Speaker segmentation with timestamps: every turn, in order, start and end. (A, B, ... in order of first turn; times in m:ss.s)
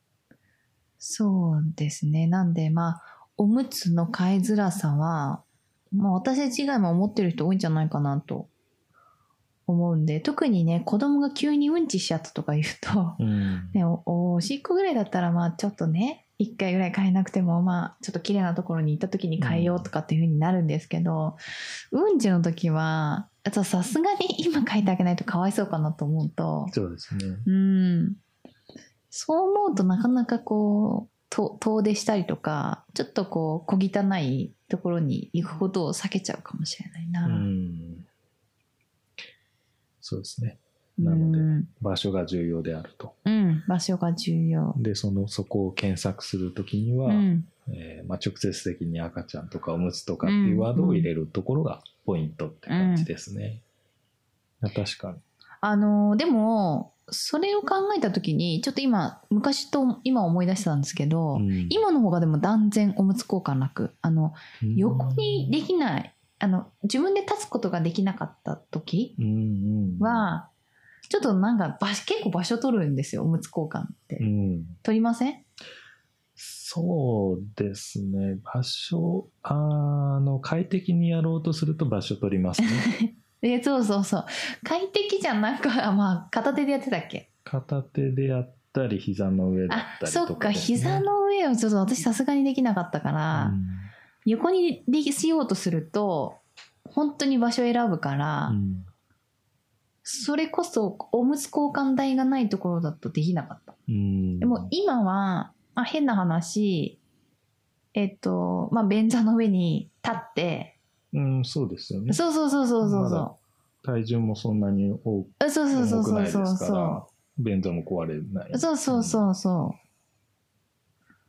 0:01.0-0:08.5 A
0:09.7-0:13.2 A
0:13.2-0:13.8 B
0:13.7-0:21.4 A
0:19.4-0:19.9 B
0:21.9-0:26.7 A
0:26.7-0:27.4 B
0:27.4-0:28.2 A
0:29.1-0:37.5 A
0:37.2-0:38.1 B
0:40.0-0:43.2 B
0:41.0-0:41.7 A
0:43.2-0:44.8 A
0:44.7-0:53.6 B
0:47.0-0:47.5 A
0:50.2-0:51.1 A
0:52.7-0:53.1 A
0:54.6-0:55.2 B
0:55.6-1:09.2 A
1:01.3-1:01.8 B
1:04.6-1:05.6 B
1:09.2-1:10.3 B
1:10.0-1:10.5 A
1:11.1-1:14.3 A
1:14.2-1:14.8 B
1:14.8-1:15.4 A
1:16.4-1:22.9 B
1:22.6-1:27.3 A
1:27.4-1:31.1 B
1:29.7-1:33.6 A
1:33.3-1:33.9 B
1:34.2-1:38.6 A
1:38.5-1:38.9 B
1:40.0-1:43.8 A
1:43.9-1:44.7 B
1:44.4-1:47.0 A
1:47.9-1:50.8 A
1:51.1-1:52.2 B
1:52.1-1:53.4 A
1:52.8-1:53.3 B
1:53.8-1:59.2 B
1:55.4-1:57.0 A
1:58.5-1:59.8 A